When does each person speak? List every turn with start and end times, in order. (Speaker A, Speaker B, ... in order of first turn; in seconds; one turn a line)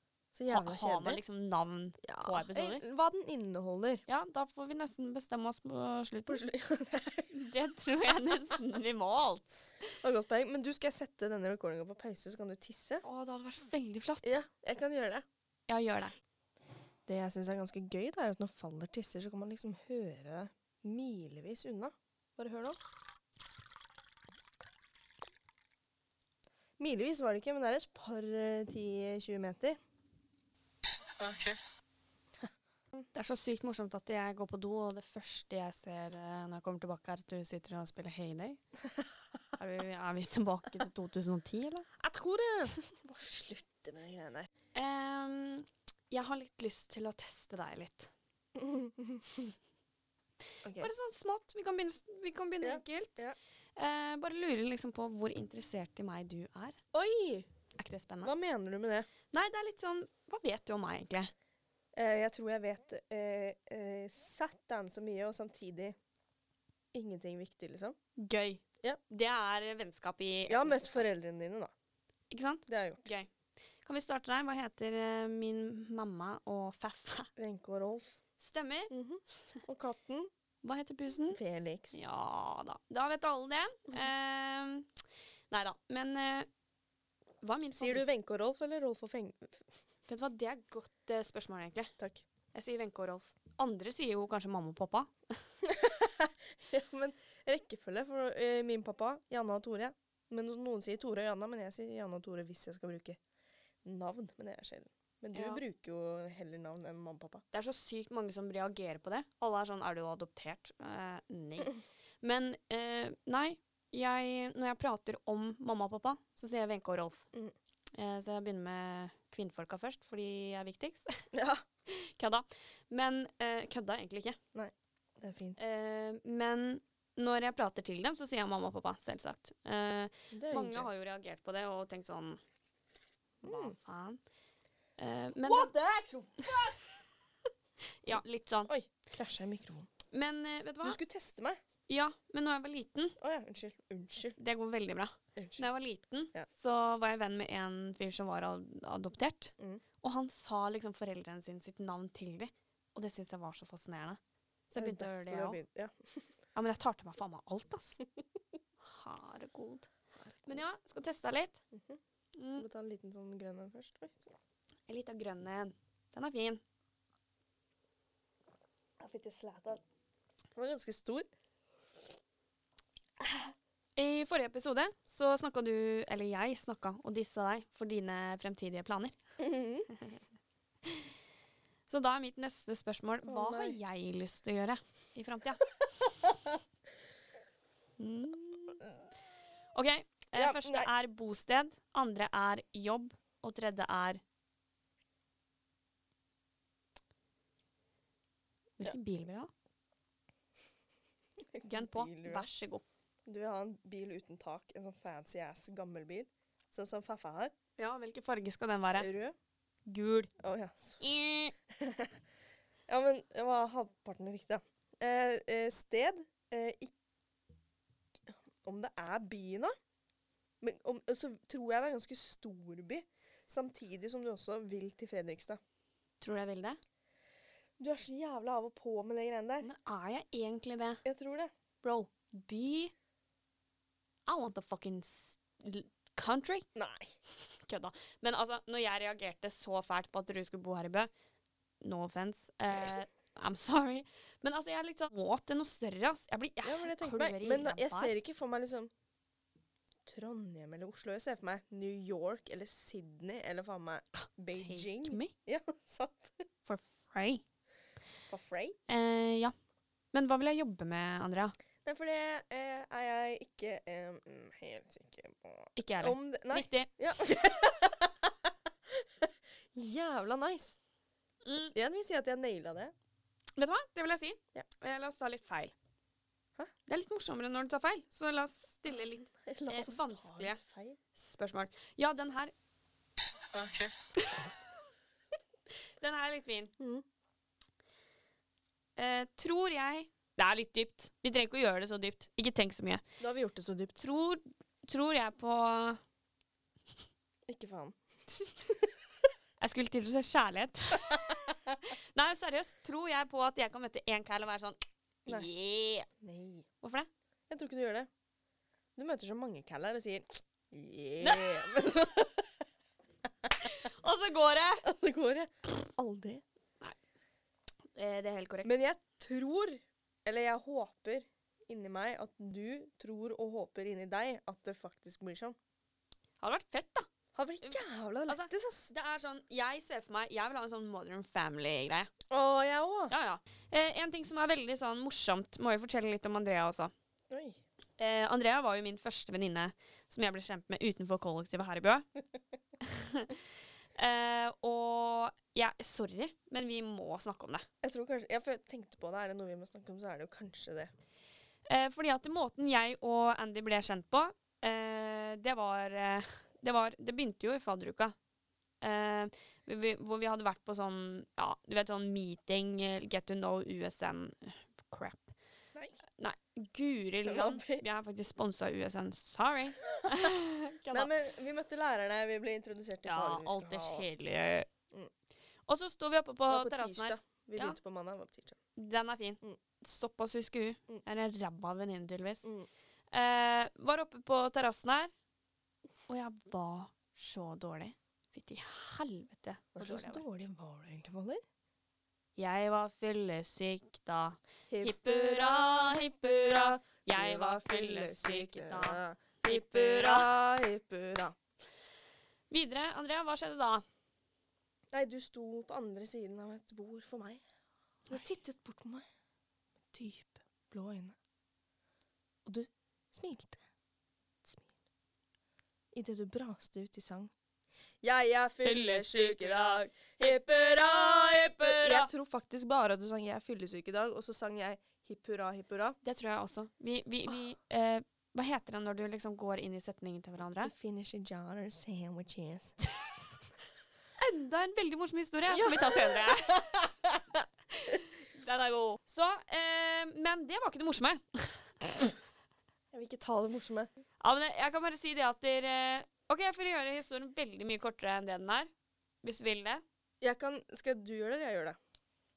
Speaker A: 0.3-1.2
Speaker B: 0.5-2.8
Speaker A: 2.0-4.0
Speaker B: 4.1-6.4
Speaker A: 6.3-7.3
Speaker B: 7.3-9.7
Speaker A: 10.0-13.0
Speaker B: 13.0-14.3
Speaker A: 14.2-15.2
Speaker B: 15.7-16.1
Speaker A: 17.1-22.8
Speaker A: 26.8-29.8
Speaker B: 33.1-38.6
Speaker B: 39.6-41.9
Speaker A: 42.0-44.5
Speaker B: 44.7-48.1
Speaker A: 48.5-49.5
Speaker A: 50.6-50.9
Speaker B: 50.8-53.2
Speaker A: 52.6-53.4
Speaker B: 53.8-56.8
Speaker A: 56.9-57.5
Speaker B: 57.8-58.3
Speaker A: 58.2-59.1
Speaker B: 59.3-61.3
Speaker A: 61.9-66.0
Speaker A: 66.9-68.0
Speaker B: 68.2-71.0
Speaker A: 70.5-71.7
Speaker B: 72.3-73.3
Speaker A: 72.7-73.1
Speaker B: 73.8-77.3
Speaker A: 77.4-78.2
Speaker B: 78.4-78.9
Speaker A: 78.9-80.3
Speaker B: 80.6-81.4
Speaker A: 81.3-82.0
Speaker B: 81.9-84.9
Speaker B: 85.5-86.5
Speaker B: 87.4-88.0
Speaker A: 87.8-89.6
Speaker B: 90.1-91.9
Speaker A: 92.0-92.2
Speaker B: 92.5-95.1
Speaker A: 95.6-103.2
Speaker A: 103.8-107.4
Speaker B: 105.3-105.6
Speaker B: 107.5-117.3
Speaker B: 118.0-121.2
Speaker A: 121.3-121.6
Speaker B: 121.9-124.4
Speaker A: 124.5-125.6
Speaker B: 125.6-132.4
Speaker A: 130.3-130.9
Speaker A: 133.4-133.8
Speaker B: 133.4-134.2
Speaker B: 135.0-135.7
Speaker A: 135.4-136.8
Speaker B: 138.0-138.7
Speaker A: 138.1-139.9
Speaker B: 140.1-141.0
Speaker A: 140.8-141.6
Speaker B: 141.9-143.2
Speaker A: 143.2-144.4
Speaker B: 144.4-154.2
Speaker A: 145.3-145.6
Speaker B: 154.7-155.6
Speaker A: 154.8-156.3
Speaker B: 156.5-158.0
Speaker B: 158.8-159.9
Speaker A: 160.2-160.6
Speaker B: 160.4-161.6
Speaker A: 161.7-162.0
Speaker B: 162.3-162.6
Speaker A: 162.5-164.3
Speaker B: 164.9-166.6
Speaker A: 169.0-169.8
Speaker A: 170.6-171.3
Speaker B: 173.9-179.2
Speaker A: 179.4-179.9
Speaker B: 181.9-185.7
Speaker A: 183.2-183.8
Speaker B: 188.0-188.8
Speaker B: 189.7-194.2
Speaker A: 190.3-190.9
Speaker B: 198.8-199.5
Speaker A: 201.5-202.5
Speaker B: 201.6-202.8
Speaker A: 203.2-207.5
Speaker B: 207.8-209.1
Speaker A: 208.9-209.3
Speaker B: 209.9-210.3
Speaker A: 210.4-211.0
Speaker B: 211.0-211.5
Speaker A: 211.7-212.2
Speaker A: 212.9-216.9
Speaker A: 218.3-219.7
Speaker A: 220.6-225.6
Speaker B: 226.2-226.8
Speaker A: 227.8-229.7
Speaker B: 229.6-231.0
Speaker A: 231.0-231.5
Speaker B: 231.8-232.9
Speaker B: 234.3-236.7
Speaker A: 236.7-237.2
Speaker B: 237.7-241.1
Speaker B: 241.8-248.1
Speaker A: 246.6-248.9
Speaker A: 250.0-256.4
Speaker B: 254.2-255.3
Speaker B: 256.6-257.4
Speaker A: 258.3-258.8
Speaker B: 258.9-259.5
Speaker B: 260.1-261.5
Speaker A: 261.8-270.8
Speaker B: 265.8-266.9
Speaker B: 271.4-271.7
Speaker A: 271.7-272.9
Speaker B: 273.6-275.7
Speaker B: 276.9-280.6
Speaker A: 279.3-281.0
Speaker B: 281.1-282.5
Speaker B: 284.2-284.5
Speaker B: 286.0-286.7
Speaker A: 286.8-287.0
Speaker B: 289.0-293.0
Speaker A: 293.2-294.0
Speaker B: 294.0-296.0
Speaker A: 297.5-298.0
Speaker B: 299.6-306.1
Speaker A: 306.2-306.7
Speaker B: 306.8-307.1
Speaker A: 307.5-308.1
Speaker A: 308.9-312.5
Speaker B: 311.2-311.7
Speaker B: 313.6-314.8
Speaker A: 314.8-316.4
Speaker B: 317.9-318.8
Speaker A: 318.6-325.6
Speaker B: 326.4-327.1
Speaker A: 327.3-328.9
Speaker B: 327.6-332.1
Speaker A: 332.3-333.1
Speaker B: 333.1-336.9
Speaker A: 337.3-337.6
Speaker B: 338.0-342.1
Speaker B: 342.8-343.4
Speaker B: 343.9-347.6
Speaker A: 347.8-350.9
Speaker B: 351.7-358.1
Speaker B: 358.8-365.3
Speaker A: 365.7-366.0
Speaker B: 366.2-371.1
Speaker A: 367.2-367.8
Speaker A: 370.0-370.3
Speaker A: 370.9-374.1
Speaker B: 373.1-374.7
Speaker B: 375.7-377.8
Speaker A: 376.5-378.6
Speaker B: 378.8-382.4
Speaker A: 382.4-382.7
Speaker B: 383.1-385.1
Speaker B: 386.1-390.2
Speaker A: 389.8-391.4
Speaker B: 392.4-400.4
Speaker A: 394.7-401.4
Speaker B: 402.5-403.8
Speaker A: 404.9-407.4
Speaker A: 408.1-409.1
Speaker A: 409.9-411.1
Speaker A: 412.4-413.6
Speaker A: 414.4-414.7
Speaker A: 415.9-417.3
Speaker A: 418.0-426.0
Speaker B: 418.6-422.1
Speaker B: 426.0-430.7
Speaker A: 430.6-432.8
Speaker B: 434.2-436.8
Speaker A: 435.5-437.4
Speaker B: 437.7-441.7
Speaker A: 442.9-443.9
Speaker B: 444.2-448.7
Speaker B: 449.2-449.8
Speaker A: 450.2-451.8